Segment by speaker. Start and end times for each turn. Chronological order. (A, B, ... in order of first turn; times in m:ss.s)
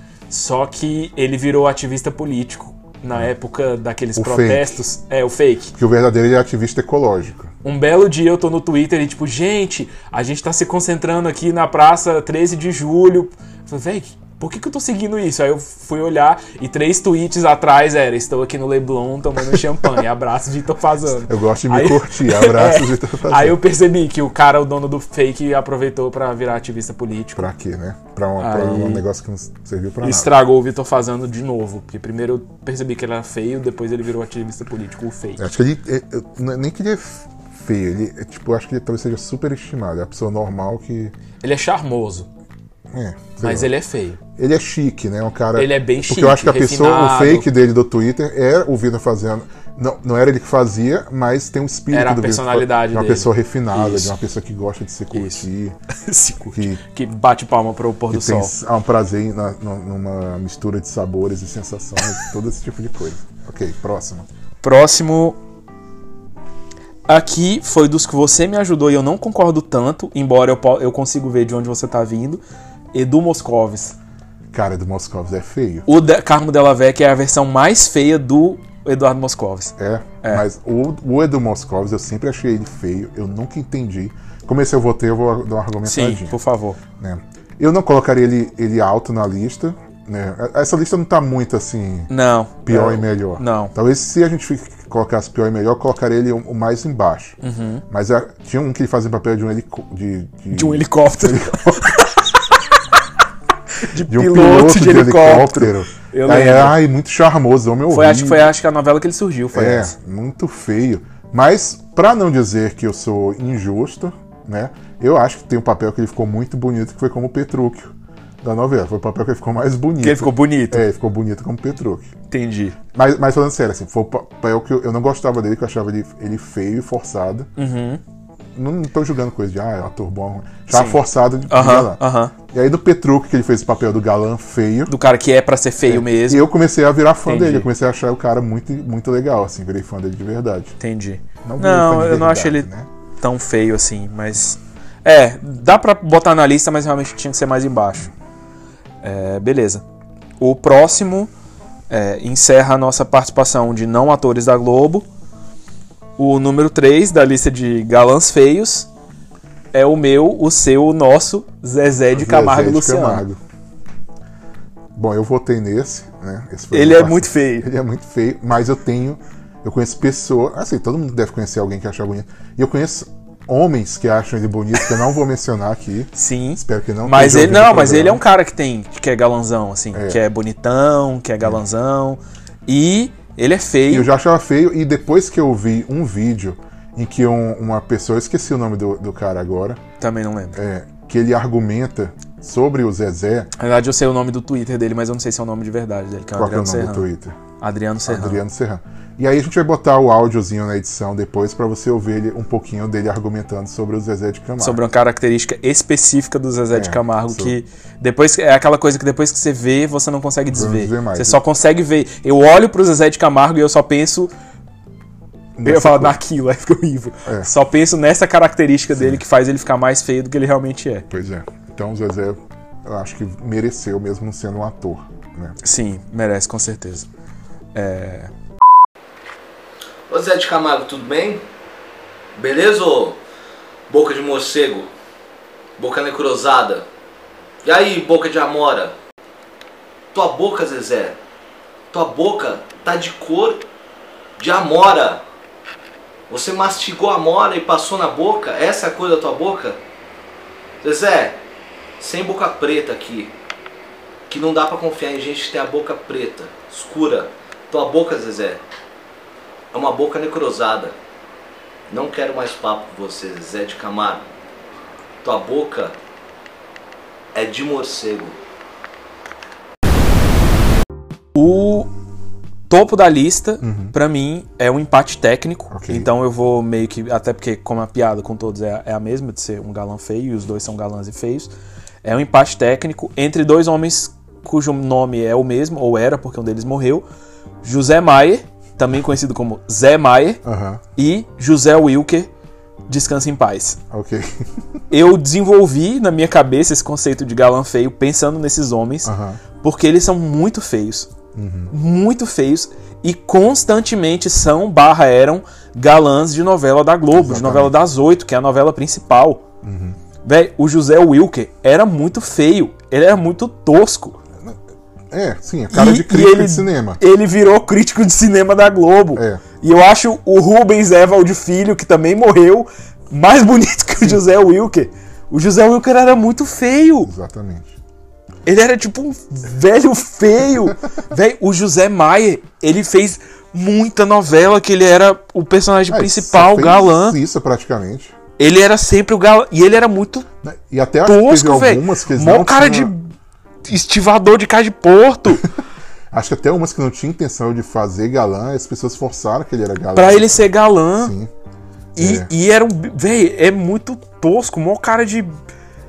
0:00.3-0:05.7 A
0:04.2-0:04.8 B
0:05.7-0:07.5 B
0:07.6-0:27.5 A
0:21.2-0:23.6 B
0:27.4-0:30.3 B
0:28.4-0:29.0 A
0:30.0-0:35.4 A
0:35.4-0:41.1 B
0:41.4-0:42.3 A
0:42.9-0:43.7 B
0:43.4-0:44.2 A
0:44.4-0:55.8 B
0:45.5-0:47.5 A
0:51.9-0:54.1 A
0:55.1-0:58.5 A
0:56.5-0:56.8 B
0:58.1-1:04.3 B
1:04.6-1:05.4 A
1:07.1-1:12.4 A
1:12.9-1:14.0 A
1:14.5-1:15.8 B
1:15.8-1:20.4 A
1:19.8-1:26.4 B
1:25.8-1:26.8 A
1:27.0-1:32.1 B
1:32.1-1:33.7 A
1:32.6-1:37.4 B
1:37.4-1:37.8 A
1:37.9-1:41.9 B
1:40.5-1:42.6 A
1:43.8-1:46.8 A
1:44.0-1:48.5 B
1:47.9-1:49.9 A
1:49.5-2:02.1 B
2:00.0-2:00.8 A
2:02.3-2:02.8 A
2:02.9-2:07.5 B
2:07.6-2:08.0 A
2:08.5-2:14.9 B
2:10.7-2:12.3 A
2:14.9-2:16.5 A
2:15.8-2:20.8 B
2:17.2-2:17.7 A
2:20.8-2:22.7 A
2:21.4-2:22.9 B
2:23.2-2:28.1 A
2:29.0-2:29.8 A
2:30.4-2:31.3 A
2:31.9-2:35.1 A
2:36.2-2:38.9 A
2:39.7-2:43.2 A
2:42.1-2:43.4 B
2:44.9-2:58.2 B
2:46.7-2:47.7 A
2:56.1-3:04.1 A
2:59.9-3:00.2 B
3:03.9-3:09.8 B
3:10.0-3:10.6 A
3:10.5-3:13.5 B
3:13.6-3:17.1 A
3:16.3-3:17.4 B
3:17.6-3:18.4 A
3:18.0-3:24.8 B
3:24.6-3:34.3 A
3:26.7-3:27.6 B
3:30.5-3:31.4 B
3:35.6-3:36.2 B
3:35.6-3:41.1 A
3:38.9-3:39.2 B
3:41.1-3:45.6 B
3:45.6-3:47.1 A
3:47.7-3:48.3 A
3:50.1-3:51.4 C
3:52.3-3:53.2 C
3:53.9-3:54.9 C
3:55.8-3:56.9 C
3:57.6-3:59.0 C
4:00.1-4:01.2 C
4:01.9-4:03.6 C
4:04.4-4:05.2 C
4:06.3-4:09.8 C
4:10.8-4:11.4 C
4:12.0-4:13.3 C
4:14.3-4:18.6 C
4:19.7-4:21.0 C
4:21.9-4:24.3 C
4:25.2-4:26.0 C
4:27.3-4:28.4 C
4:31.3-4:31.9 A
4:32.7-4:41.5 A
4:33.6-4:33.9 B
4:35.7-4:36.1 B
4:42.0-4:47.0 A
4:47.6-4:50.4 A
4:50.4-4:50.8 B
4:50.9-4:52.3 A
4:52.9-4:53.8 A
4:53.9-4:54.6 B
4:54.9-5:01.1 A
4:59.0-4:59.4 B
5:01.3-5:01.7 B
5:01.7-5:09.4 A
5:07.1-5:07.8 B
5:09.6-5:10.0 B
5:10.2-5:14.2 A
5:15.1-5:17.0 B
5:15.7-5:27.1 A
5:19.1-5:19.4 B
5:27.0-5:27.8 B
5:28.4-5:37.2 A
5:35.9-5:38.2 B
5:38.4-5:40.2 A
5:40.4-5:42.9 B
5:41.0-5:43.1 A
5:43.6-5:45.5 A
5:46.1-5:51.3 B
5:49.9-5:51.1 A
5:52.0-5:55.4 A
5:52.0-5:52.3 B